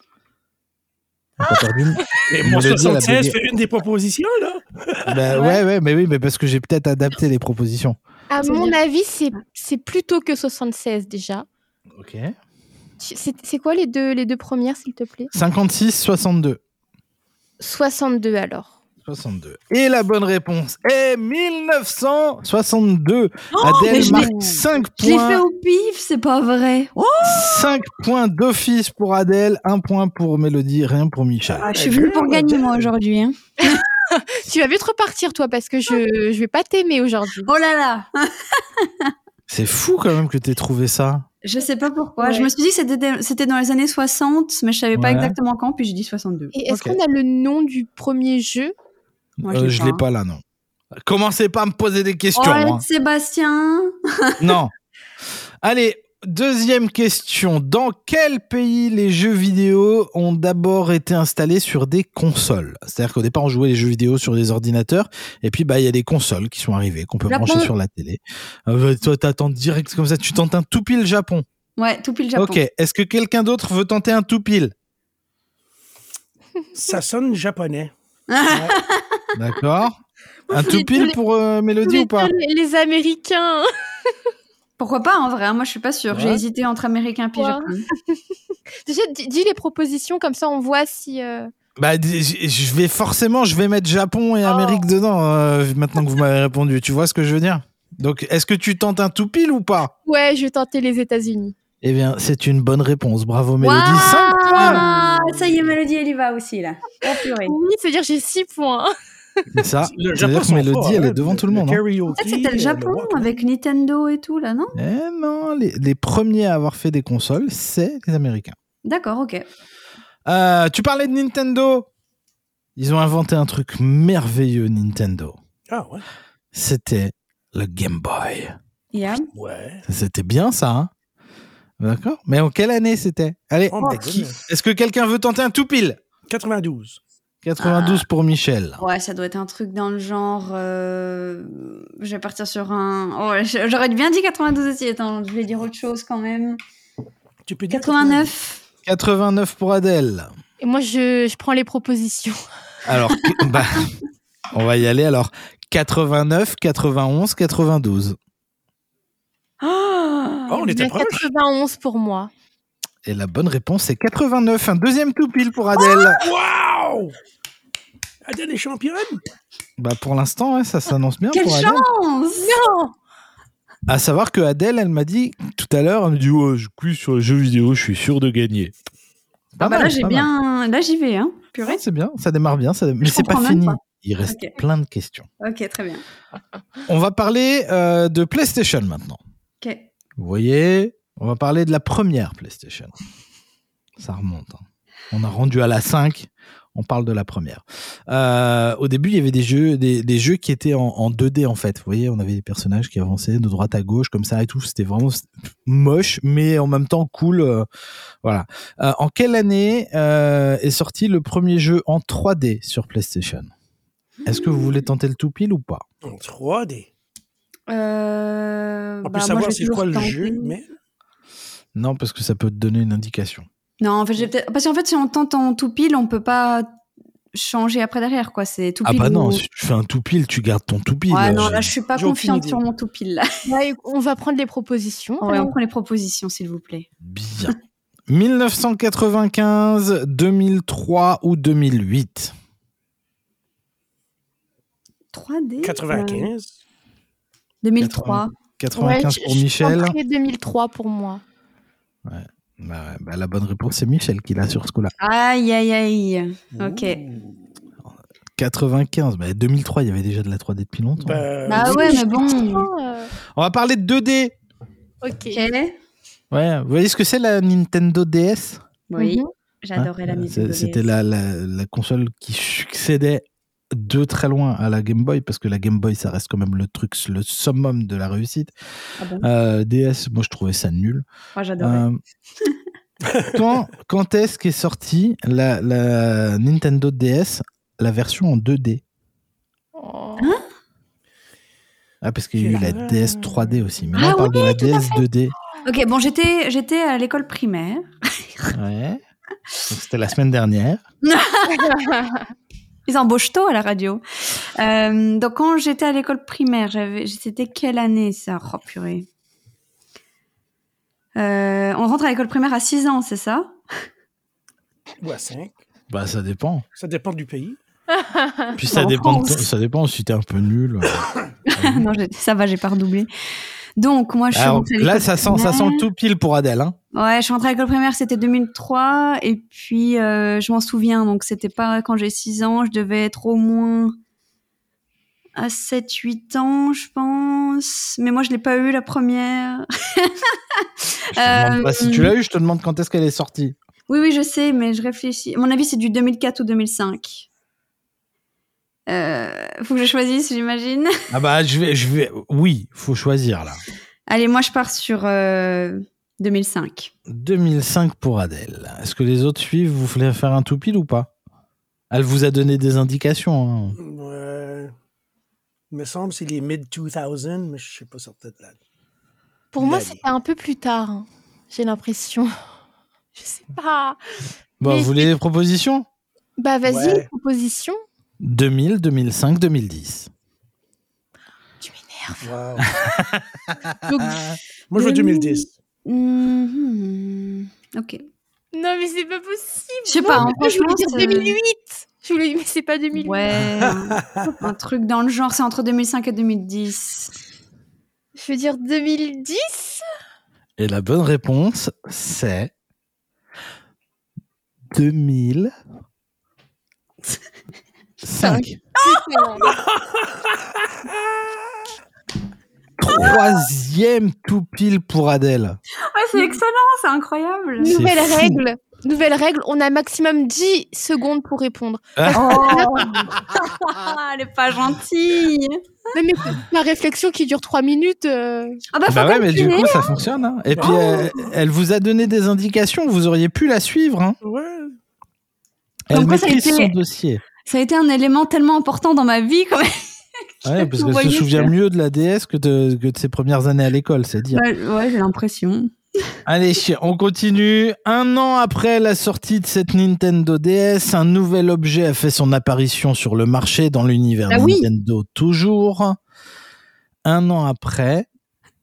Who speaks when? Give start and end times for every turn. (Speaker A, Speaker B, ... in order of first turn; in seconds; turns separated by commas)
Speaker A: 1.4-3.4, Speaker B: 2.3-5.4, Speaker A: 5.0-8.0, Speaker C: 5.3-5.6, Speaker D: 8.3-11.4, Speaker C: 8.4-8.7, Speaker A: 12.0-12.3, Speaker D: 13.0-15.3, Speaker A: 15.3-16.6, Speaker D: 17.6-18.7, Speaker A: 19.0-25.4, Speaker D: 23.5-24.3, Speaker C: 23.8-24.3, Speaker C: 25.0-27.7, Speaker A: 27.2-31.7, Speaker B: 31.5-32.9, Speaker C: 31.6-33.8, Speaker D: 34.4-37.5, Speaker C: 37.5-38.3, Speaker A: 39.5-41.2, Speaker C: 41.4-46.5, Speaker D: 42.2-42.5, Speaker A: 44.9-45.3, Speaker D: 46.5-48.7, Speaker A: 46.7-47.0, Speaker C: 49.4-50.0, Speaker A: 49.4-50.4, Speaker A: 51.0-52.8, Speaker C: 52.4-54.4, Speaker A: 54.4-54.7, Speaker A: 55.6-71.4, Speaker C: 67.3-67.7, Speaker C: 71.8-72.6, Speaker A: 72.3-74.7, Speaker B: 76.7-77.9, Speaker C: 78.3-79.2, Speaker B: 78.5-78.7, Speaker A: 79.3-80.0, Speaker D: 80.5-81.2, Speaker A: 80.5-82.3, Speaker D: 81.8-83.7, Speaker C: 84.8-87.8, Speaker A: 86.1-86.4, Speaker D: 87.4-87.8, Speaker D: 88.8-91.5, Speaker A: 91.8-99.9, Speaker D: 94.4-94.9, Speaker D: 100.0-101.5, Speaker A: 101.8-104.8, Speaker C: 103.6-107.5, Speaker D: 104.4-105.1, Speaker D: 107.1-108.9, Speaker A: 109.5-111.8, Speaker B: 109.8-113.4, Speaker C: 112.1-114.8, Speaker A: 114.8-118.5, Speaker C: 118.8-119.4, Speaker A: 120.2-121.8, Speaker A: 122.8-125.4, Speaker B: 125.7-126.0, Speaker A: 126.5-128.5, Speaker C: 128.9-129.3, Speaker B: 129.3-129.8, Speaker A: 129.8-130.9, Speaker A: 131.8-136.0, Speaker B: 133.7-134.4, Speaker B: 136.3-137.0, Speaker A: 137.4-138.8, Speaker C: 137.6-138.1, Speaker C: 138.8-146.6, Speaker B: 147.5-148.3, Speaker C: 147.7-148.6, Speaker A: 148.8-150.3, Speaker D: 150.6-152.4, Speaker A: 152.8-153.9, Speaker A: 154.5-158.2, Speaker C: 159.6-160.6, Speaker B: 160.5-161.3, Speaker D: 160.6-162.3, Speaker A: 163.0-166.2, Speaker B: 165.8-167.2, Speaker B: 168.2-169.2, Speaker A: 169.8-171.8, Speaker C: 171.3-172.5, Speaker D: 172.4-172.9, Speaker A: 173.9-178.7, Speaker A: 179.6-180.3, Speaker C: 179.6-181.8, Speaker A: 181.6-185.3, Speaker C: 183.0-184.5, Speaker C: 185.4-186.0, Speaker A: 186.8-189.2, Speaker C: 189.6-189.9, Speaker A: 190.2-192.9, Speaker A: 194.0-207.7, Speaker A: 208.2-213.5, Speaker C: 214.2-214.8, Speaker A: 214.2-215.8, Speaker B: 216.0-216.9, Speaker C: 217.7-220.6, Speaker B: 219.0-220.7, Speaker A: 221.8-223.5, Speaker C: 223.8-226.7, Speaker C: 227.3-229.4, Speaker A: 228.8-231.7, Speaker C: 231.1-233.3, Speaker B: 231.9-232.6, Speaker D: 233.5-235.5, Speaker C: 235.2-236.9, Speaker A: 237.0-237.5, Speaker A: 238.1-242.3, Speaker C: 245.1-246.3, Speaker B: 245.6-246.5, Speaker C: 247.6-248.3, Speaker A: 247.8-249.9, Speaker D: 248.8-251.2, Speaker A: 252.1-254.9, Speaker C: 255.0-257.0, Speaker B: 256.5-257.4, Speaker A: 258.4-261.2, Speaker B: 261.0-262.0, Speaker C: 261.5-262.7, Speaker D: 261.6-263.1, Speaker A: 263.4-264.3, Speaker D: 265.0-265.4, Speaker C: 265.3-265.8, Speaker A: 266.3-268.6, Speaker C: 268.9-270.9, Speaker D: 269.0-269.3, Speaker A: 269.8-278.5, Speaker C: 279.0-279.3, Speaker A: 279.2-281.0, Speaker C: 281.4-281.8, Speaker A: 281.6-282.0, Speaker A: 283.3-288.8, Speaker D: 289.8-290.3, Speaker A: 292.0-295.3, Speaker B: 292.4-293.5, Speaker C: 293.9-294.5, Speaker D: 294.3-295.0, Speaker C: 295.6-298.5, Speaker A: 298.5-299.0, Speaker A: 299.7-300.8, Speaker C: 301.1-301.7, Speaker D: 301.6-301.9, Speaker C: 302.9-304.0, Speaker C: 304.6-309.1, Speaker C: 311.1-313.5, Speaker B: 315.0-315.6, Speaker A: 315.9-316.6, Speaker B: 316.8-317.6, Speaker A: 318.5-321.1, Speaker C: 318.7-319.5, Speaker C: 321.5-323.1, Speaker A: 321.6-321.8, Speaker C: 323.8-325.8, Speaker A: 324.3-326.7, Speaker C: 326.9-333.9, Speaker C: 335.4-342.1, Speaker A: 341.1-343.6, Speaker C: 343.9-347.2, Speaker C: 348.9-350.9, Speaker A: 351.1-353.6, Speaker C: 354.1-356.9, Speaker A: 357.1-361.1, Speaker A: 361.9-363.8, Speaker B: 363.8-364.7, Speaker B: 365.7-368.6, Speaker D: 369.5-372.3, Speaker B: 369.6-370.0, Speaker D: 373.1-374.0, Speaker A: 374.6-375.9, Speaker D: 374.6-375.1, Speaker D: 376.4-377.8, Speaker B: 376.6-377.1, Speaker A: 378.2-380.1, Speaker D: 381.6-382.2, Speaker B: 382.2-382.7, Speaker A: 382.8-383.5, Speaker D: 383.8-384.4, Speaker B: 384.7-385.5, Speaker C: 384.7-388.0, Speaker D: 388.5-393.6, Speaker C: 389.9-391.4, Speaker C: 393.0-397.1, Speaker B: 393.7-394.2, Speaker D: 398.1-399.8, Speaker A: 400.6-402.5, Speaker A: 404.7-405.5, Speaker A: 408.0-408.6, Speaker D: 408.2-409.5, Speaker B: 409.5-411.1, Speaker A: 412.8-415.6, Speaker C: 415.9-417.7, Speaker D: 417.6-423.1, Speaker A: 417.7-418.4, Speaker A: 421.9-422.7, Speaker C: 422.1-425.5, Speaker D: 425.9-428.6, Speaker C: 428.7-429.9, Speaker A: 428.9-434.2, Speaker B: 430.6-431.3, Speaker C: 430.6-431.1, Speaker B: 434.2-434.8, Speaker A: 435.9-437.2, Speaker C: 435.9-436.7, Speaker C: 437.4-439.8, Speaker C: 440.4-441.5, Speaker A: 440.4-444.4, Speaker C: 444.3-445.7, Speaker A: 446.2-456.0, Speaker C: 454.3-454.7, Speaker A: 457.1-458.1